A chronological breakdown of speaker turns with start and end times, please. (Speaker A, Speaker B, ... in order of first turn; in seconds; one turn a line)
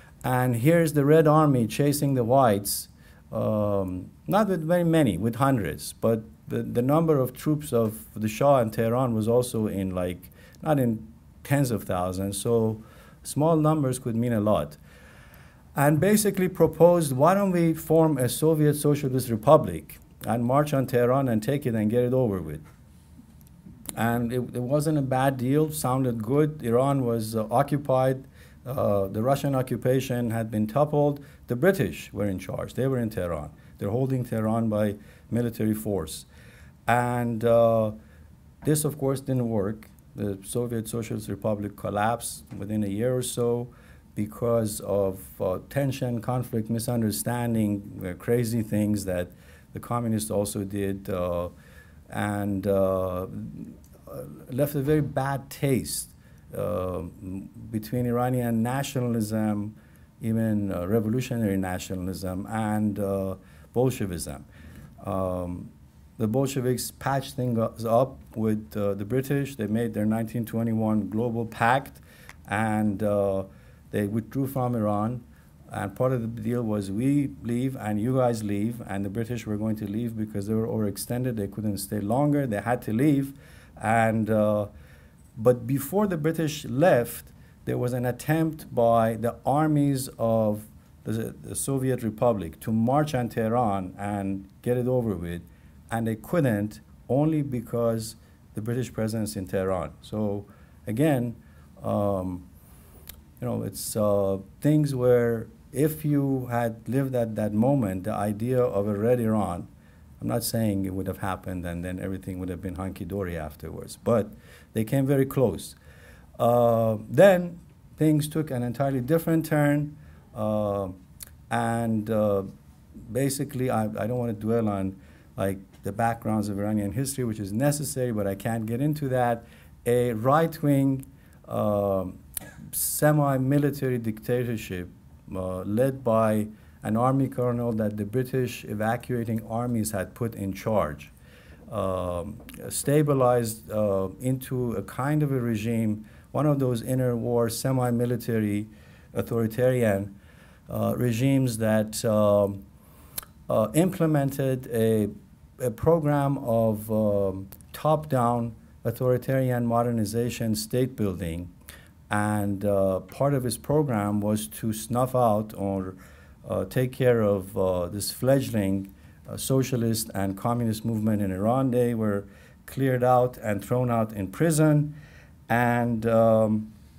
Speaker A: 0.2-14.8
Speaker A: 15.7-22.6
Speaker A: 23.9-36.3
Speaker A: 36.9-37.9
Speaker A: 38.6-51.5
Speaker A: 52.1-64.5
Speaker A: 65.0-84.7
Speaker A: 85.3-102.5
Speaker A: 103.4-109.7
Speaker A: 110.2-115.8
Speaker A: 116.4-121.0
Speaker A: 121.5-122.5
Speaker A: 123.0-141.1
Speaker A: 141.7-150.1
Speaker A: 150.7-152.6
Speaker A: 153.5-161.5
Speaker A: 162.1-174.9
Speaker A: 175.5-176.7